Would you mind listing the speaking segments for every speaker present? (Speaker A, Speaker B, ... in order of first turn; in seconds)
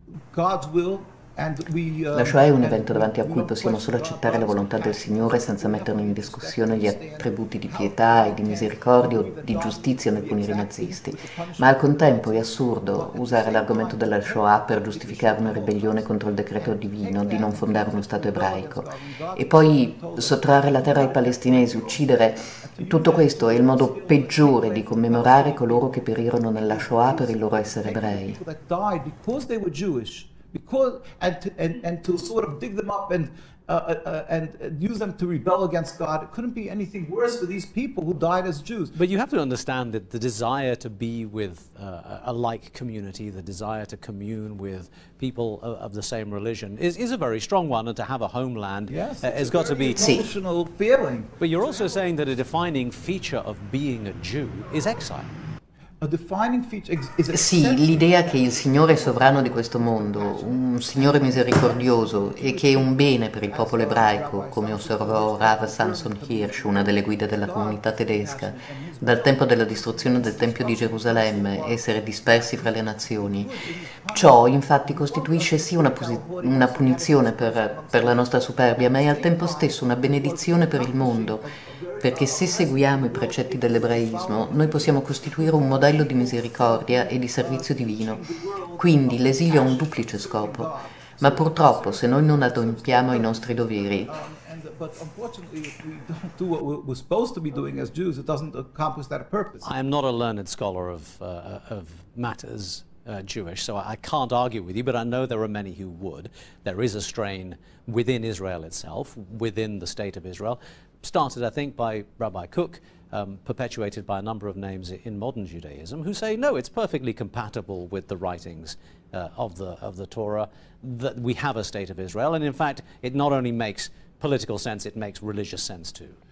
Speaker A: 0.3-26.0, 26.6-38.9, 48.9-51.4, 56.0-99.7
Speaker B: 2.1-28.4, 50.0-50.2, 57.3-73.5, 74.1-81.5, 82.0-88.2, 88.8-94.1
Speaker C: 38.9-50.2, 51.4-55.3, 99.6-126.2